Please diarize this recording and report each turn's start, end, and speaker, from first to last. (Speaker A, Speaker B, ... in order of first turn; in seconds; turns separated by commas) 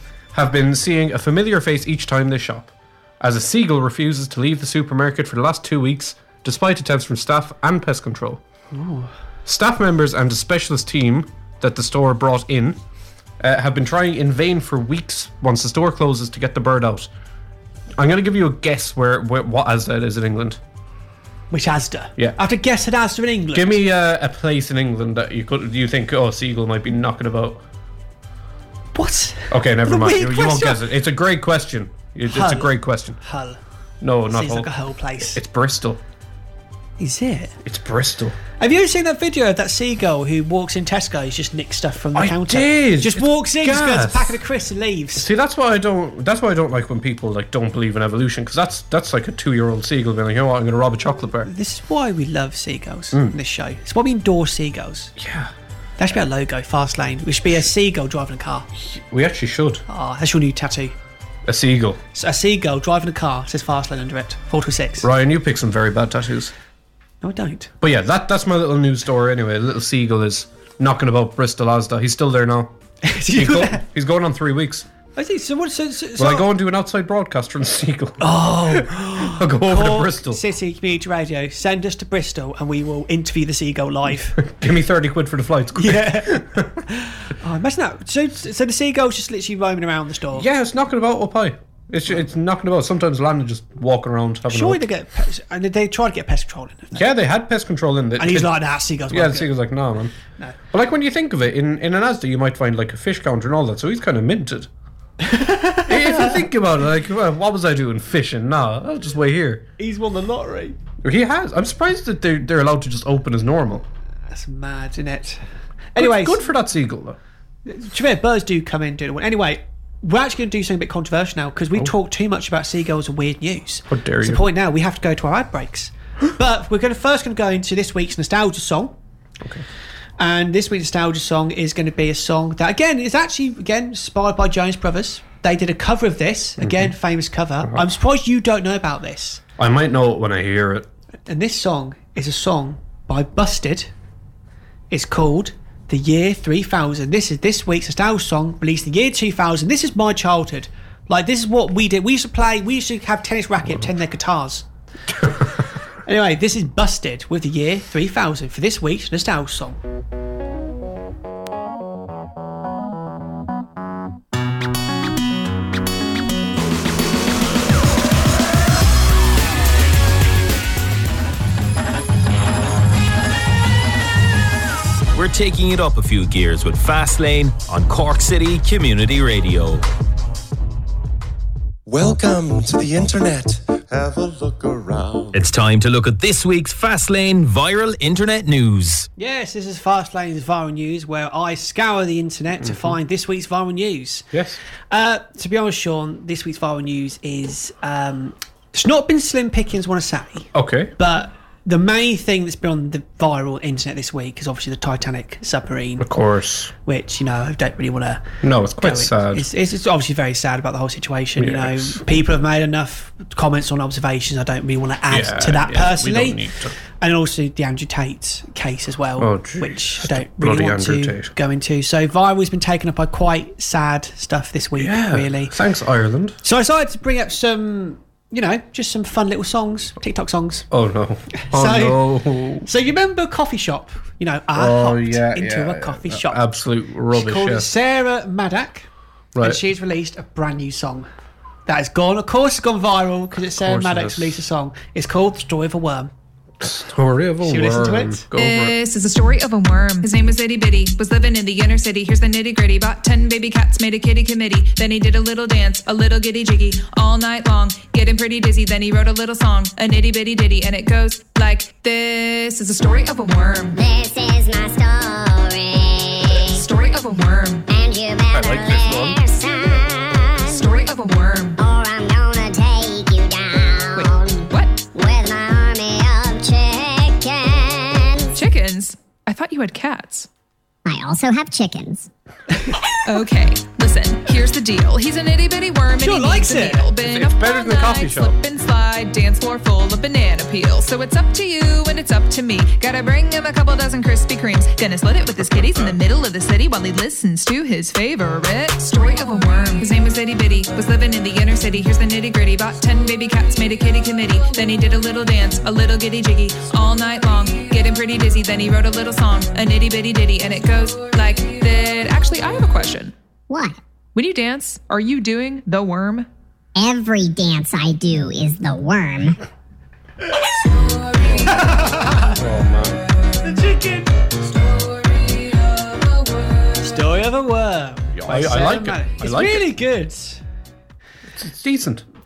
Speaker A: 0.3-8.4, Speaker B: 8.7-9.1, Speaker A: 9.4-12.8, Speaker A: 13.4-17.1, Speaker A: 18.0-20.6, Speaker B: 21.5-23.8, Speaker A: 23.5-27.6, Speaker B: 28.9-30.8, Speaker A: 29.5-33.2, Speaker B: 32.3-33.6, Speaker A: 34.0-36.0, Speaker B: 34.3-35.4, Speaker B: 37.0-37.5, Speaker A: 37.6-38.4, Speaker B: 38.6-45.3, Speaker A: 42.1-44.4, Speaker A: 45.1-51.5, Speaker B: 51.4-55.1, Speaker A: 55.2-55.5, Speaker B: 56.0-58.7, Speaker A: 58.8-59.8, Speaker B: 59.9-60.9, Speaker A: 61.5-62.0, Speaker B: 62.1-65.1, Speaker A: 65.0-66.5, Speaker B: 67.2-67.7, Speaker A: 67.8-72.7, Speaker B: 73.0-73.8, Speaker A: 73.3-74.9, Speaker B: 75.2-76.5, Speaker A: 76.2-80.4, Speaker B: 78.2-84.4, Speaker A: 84.3-86.7, Speaker B: 85.8-90.5, Speaker A: 90.3-94.8, Speaker B: 94.5-97.0, Speaker A: 96.9-98.6, Speaker B: 98.2-99.5, Speaker A: 99.1-100.1, Speaker A: 100.7-104.7, Speaker B: 105.2-106.4, Speaker A: 105.8-109.7, Speaker B: 109.8-110.8, Speaker A: 111.0-113.8, Speaker B: 114.3-115.4, Speaker B: 115.9-116.4, Speaker A: 116.0-117.2, Speaker B: 117.7-128.9, Speaker A: 123.9-124.4, Speaker B: 130.2-139.4, Speaker A: 136.6-136.9, Speaker A: 139.6-140.9, Speaker B: 141.3-143.9, Speaker B: 144.9-154.7, Speaker B: 156.0-159.8, Speaker C: 175.1-179.8, Speaker D: 181.9-185.3, Speaker C: 185.3-189.1, Speaker B: 189.2-194.3, Speaker A: 192.6-192.9, Speaker A: 194.3-194.6, Speaker B: 194.9-206.1, Speaker A: 200.5-200.9, Speaker A: 206.0-206.7, Speaker B: 206.8-216.4, Speaker A: 208.4-209.5, Speaker A: 211.4-212.0, Speaker A: 215.1-216.8, Speaker B: 217.0-225.5, Speaker A: 219.2-221.3, Speaker A: 224.7-226.4, Speaker B: 226.4-230.7, Speaker A: 230.7-232.7, Speaker B: 231.4-232.0, Speaker B: 232.6-236.4, Speaker A: 234.5-237.7, Speaker B: 237.1-238.9, Speaker A: 239.3-239.6, Speaker B: 239.4-241.1, Speaker B: 241.7-246.1, Speaker A: 243.5-244.4, Speaker A: 246.6-248.8, Speaker B: 247.4-248.2, Speaker E: 248.3-263.8, Speaker F: 263.7-266.6, Speaker E: 266.4-267.7, Speaker F: 267.7-270.6, Speaker A: 268.3-269.2, Speaker E: 270.4-271.6, Speaker F: 271.6-278.3, Speaker E: 273.9-274.8, Speaker E: 278.3-280.3, Speaker F: 280.9-282.1, Speaker E: 283.0-313.1, Speaker B: 286.0-286.9, Speaker A: 287.0-288.4, Speaker A: 295.4-296.0, Speaker F: 313.5-313.8, Speaker E: 314.1-316.3, Speaker F: 316.8-319.4, Speaker A: 321.3-323.0, Speaker B: 321.4-322.4, Speaker B: 323.4-324.1, Speaker B: 326.8-330.4, Speaker A: 328.1-329.7, Speaker A: 331.3-332.0